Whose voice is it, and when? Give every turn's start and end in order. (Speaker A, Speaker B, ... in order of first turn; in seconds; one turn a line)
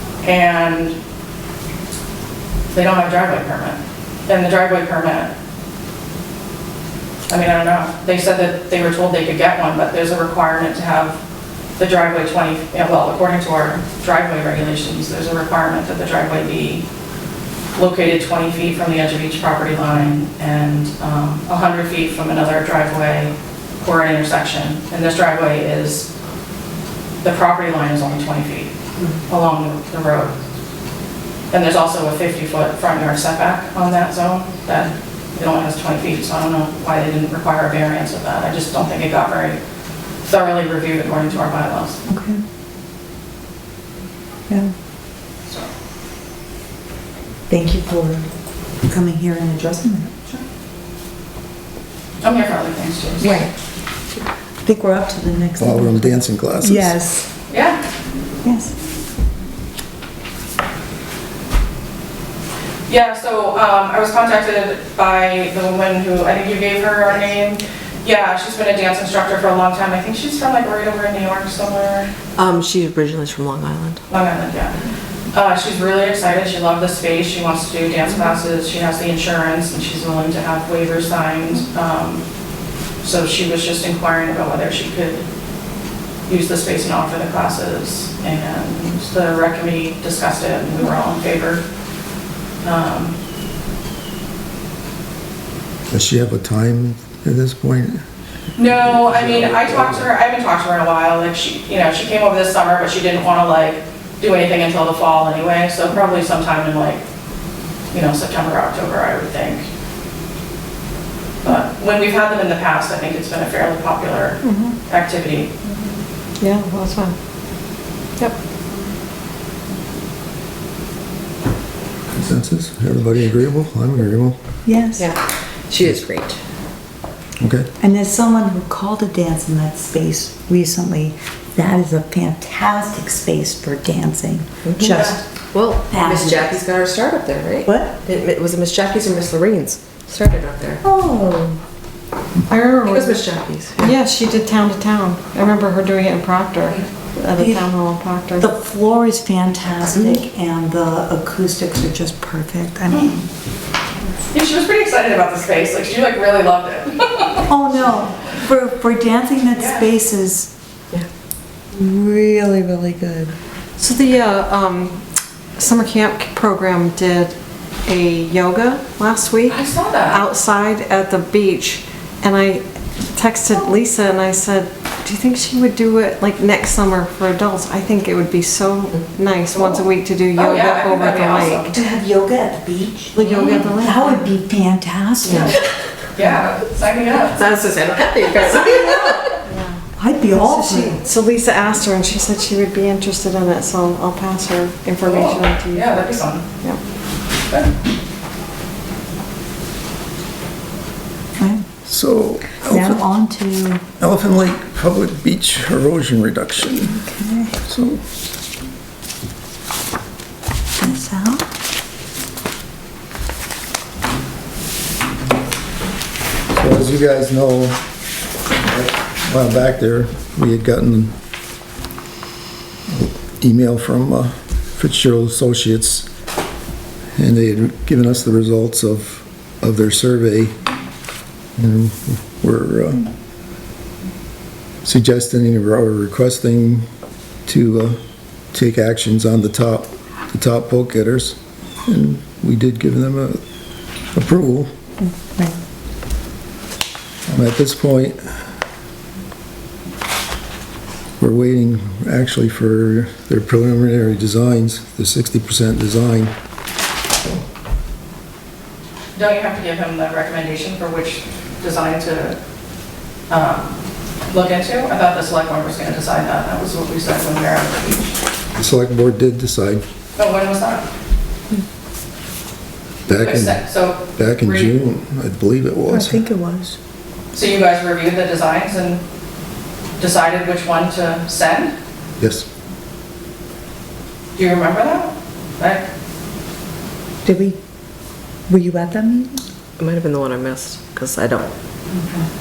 Speaker A: 0.2-0.9
Speaker A: 2.7-5.3
Speaker A: 7.3-11.2
Speaker A: 11.8-16.8
Speaker A: 17.7-26.1
Speaker A: 27.2-28.7
Speaker A: 29.3-30.3
Speaker A: 31.5-39.6
Speaker A: 40.2-42.0
Speaker B: 42.1-42.4
Speaker B: 47.5-48.3
Speaker B: 48.9-50.4
Speaker A: 52.2-53.4
Speaker B: 53.2-53.5
Speaker B: 54.6-57.3
Speaker C: 55.6-57.0
Speaker A: 57.5-57.8
Speaker B: 58.4-58.7
Speaker A: 62.9-72.1
Speaker D: 72.3-74.0
Speaker A: 74.1-74.8
Speaker A: 75.3-82.2
Speaker A: 83.0-85.2
Speaker A: 86.3-91.6
Speaker A: 92.6-93.2
Speaker C: 95.9-98.0
Speaker A: 98.5-107.0
Speaker C: 98.6-100.0
Speaker A: 107.9-109.7
Speaker A: 111.4-115.5
Speaker E: 114.4-114.8
Speaker E: 116.4-117.2
Speaker C: 122.1-124.4
Speaker B: 124.6-125.1
Speaker D: 125.0-126.4
Speaker C: 127.4-127.7
Speaker B: 127.8-135.2
Speaker D: 134.7-140.8
Speaker A: 134.9-135.2
Speaker B: 135.9-136.6
Speaker B: 137.7-137.9
Speaker B: 140.8-141.6
Speaker E: 142.5-143.2
Speaker D: 142.7-144.0
Speaker E: 143.8-148.5
Speaker B: 147.3-147.6
Speaker B: 148.4-153.2
Speaker A: 154.3-157.5
Speaker B: 157.5-160.5
Speaker A: 159.5-159.9
Speaker B: 161.7-163.3
Speaker E: 163.8-165.0
Speaker E: 165.6-167.3
Speaker E: 167.8-181.7
Speaker A: 169.4-170.2
Speaker A: 180.3-181.7
Speaker B: 181.7-185.6
Speaker E: 183.2-184.3
Speaker D: 185.2-185.6
Speaker A: 186.2-187.4
Speaker D: 187.3-189.4
Speaker E: 189.5-189.8
Speaker B: 190.0-191.0
Speaker E: 190.3-196.1
Speaker A: 195.0-196.4
Speaker B: 201.4-201.7
Speaker C: 201.9-203.0
Speaker B: 202.6-203.8
Speaker C: 204.0-207.0
Speaker B: 206.9-207.6
Speaker C: 207.7-208.0
Speaker B: 210.8-211.5
Speaker C: 216.5-217.8
Speaker C: 218.6-221.1
Speaker C: 222.9-226.1
Speaker C: 227.2-230.5
Speaker C: 231.6-233.1
Speaker C: 234.8-236.8
Speaker C: 237.4-238.0
Speaker C: 238.5-243.4
Speaker C: 244.1-244.7
Speaker B: 245.0-245.6
Speaker C: 247.3-248.2
Speaker C: 251.2-256.3
Speaker A: 259.1-262.4
Speaker A: 263.3-263.8
Speaker A: 264.3-268.1
Speaker C: 268.5-269.8
Speaker A: 270.2-270.9
Speaker C: 273.1-276.2
Speaker A: 273.1-274.8
Speaker B: 275.9-276.8
Speaker A: 277.3-279.0
Speaker A: 280.0-281.7
Speaker C: 282.2-282.5
Speaker A: 284.4-285.8
Speaker B: 287.2-287.6
Speaker B: 288.5-289.4
Speaker D: 289.8-291.5
Speaker B: 291.9-292.2